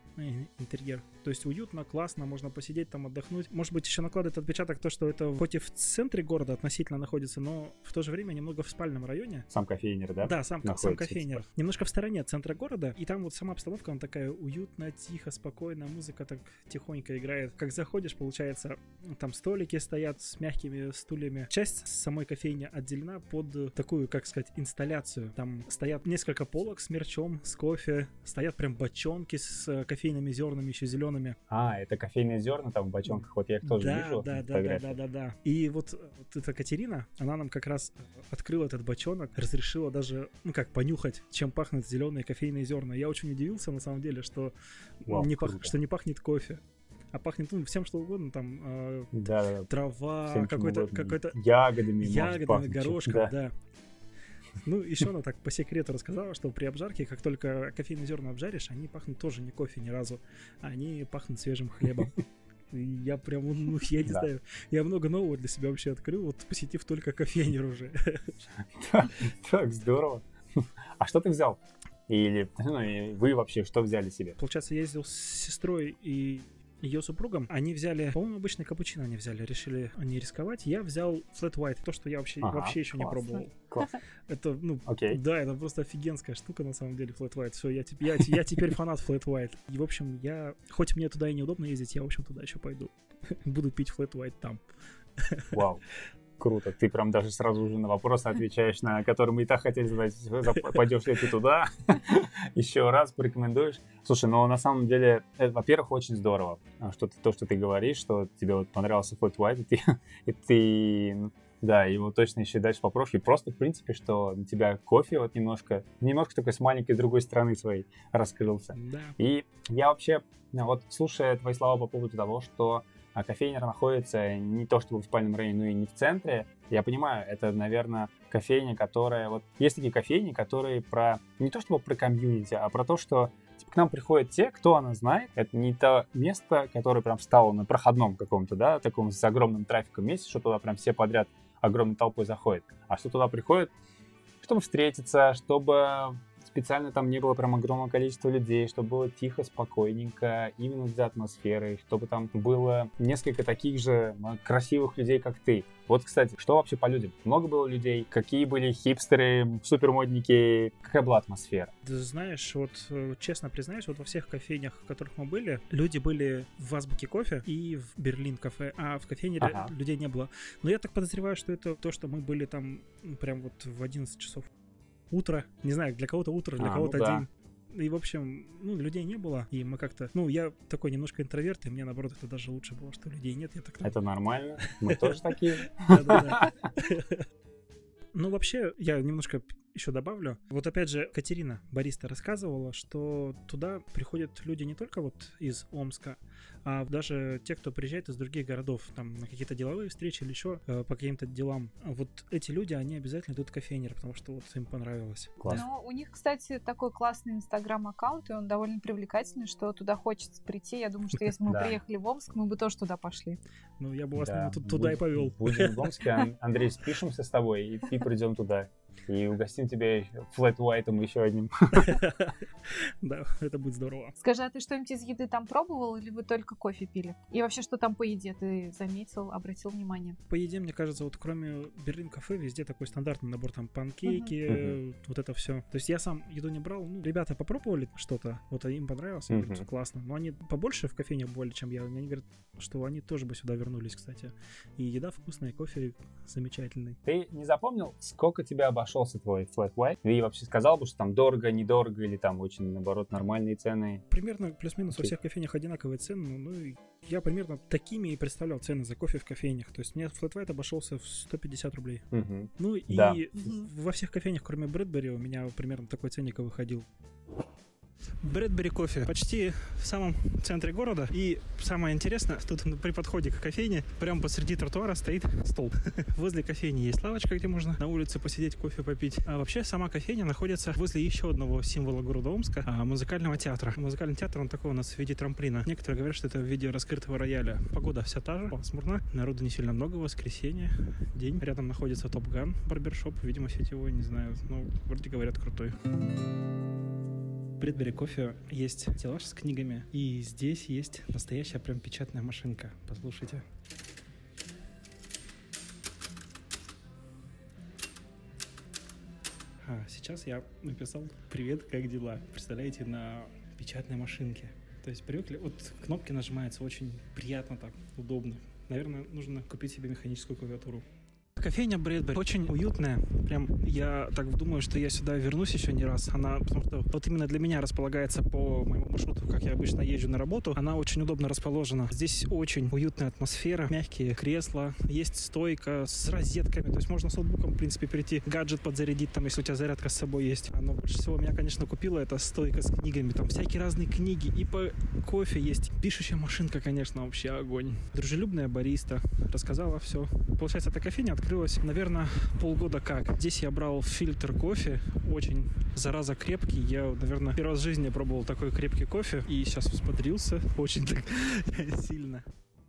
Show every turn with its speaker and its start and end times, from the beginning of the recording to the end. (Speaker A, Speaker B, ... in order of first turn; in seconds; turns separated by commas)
Speaker A: 0.2-9.5, Speaker B: 9.5-11.4, Speaker A: 10.2-31.4, Speaker B: 31.5-35.0, Speaker A: 33.1-46.6, Speaker B: 45.1-45.7, Speaker A: 47.1-49.1, Speaker B: 49.1-49.7, Speaker A: 49.7-51.4, Speaker B: 50.3-53.3, Speaker A: 52.0-53.5, Speaker A: 54.6-62.2, Speaker A: 62.7-68.4, Speaker B: 68.8-74.4, Speaker A: 74.4-83.5, Speaker B: 82.4-82.8, Speaker A: 84.3-94.6, Speaker B: 84.9-85.2, Speaker A: 95.2-95.5, Speaker B: 95.5-95.8, Speaker B: 96.4-143.7, Speaker A: 118.7-119.2, Speaker B: 144.4-161.7, Speaker A: 161.8-174.5, Speaker B: 169.4-169.7, Speaker A: 175.1-183.9, Speaker B: 176.6-177.2, Speaker B: 183.8-186.6, Speaker A: 184.6-187.2, Speaker A: 188.1-205.7, Speaker B: 205.4-205.7, Speaker C: 205.5-213.4, Speaker B: 211.5-211.8, Speaker A: 213.8-216.1, Speaker B: 214.2-222.0, Speaker A: 221.7-224.2, Speaker C: 224.2-230.2, Speaker A: 230.3-247.0, Speaker B: 234.5-234.8, Speaker B: 239.3-239.7, Speaker B: 247.1-254.0, Speaker A: 254.1-262.1, Speaker B: 262.1-263.2, Speaker A: 262.6-266.9, Speaker A: 268.2-295.8, Speaker A: 297.6-303.4, Speaker A: 309.6-320.9, Speaker A: 321.4-362.3